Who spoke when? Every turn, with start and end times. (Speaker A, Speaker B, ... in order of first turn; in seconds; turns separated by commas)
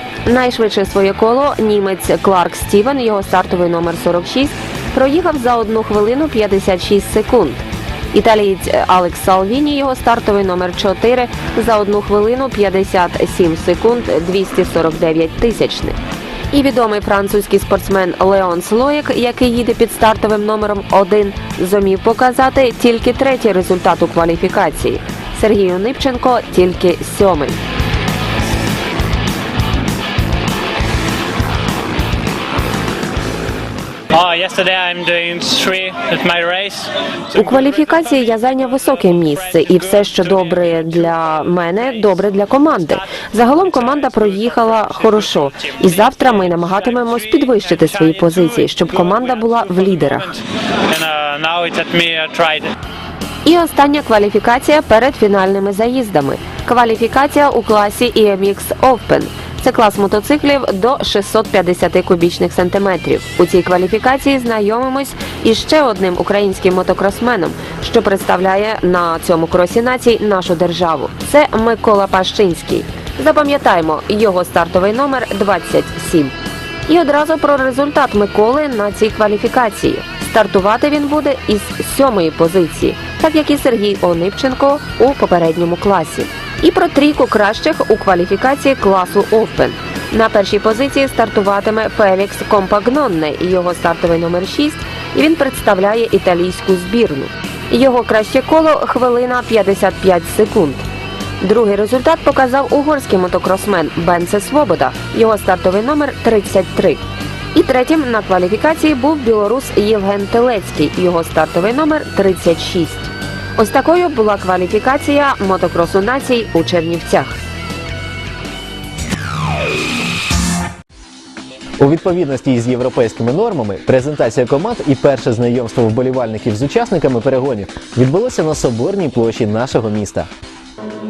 Speaker A: 0.2-16.0, Speaker A: 16.5-27.6, Speaker B: 34.1-36.9, Speaker A: 37.3-50.4, Speaker B: 40.4-40.7, Speaker B: 43.9-45.0, Speaker B: 46.1-48.5, Speaker B: 49.4-50.2, Speaker B: 50.9-52.6, Speaker A: 53.5-76.3, Speaker A: 76.9-100.8, Speaker A: 101.4-107.0, Speaker A: 107.5-117.4, Speaker C: 121.8-130.3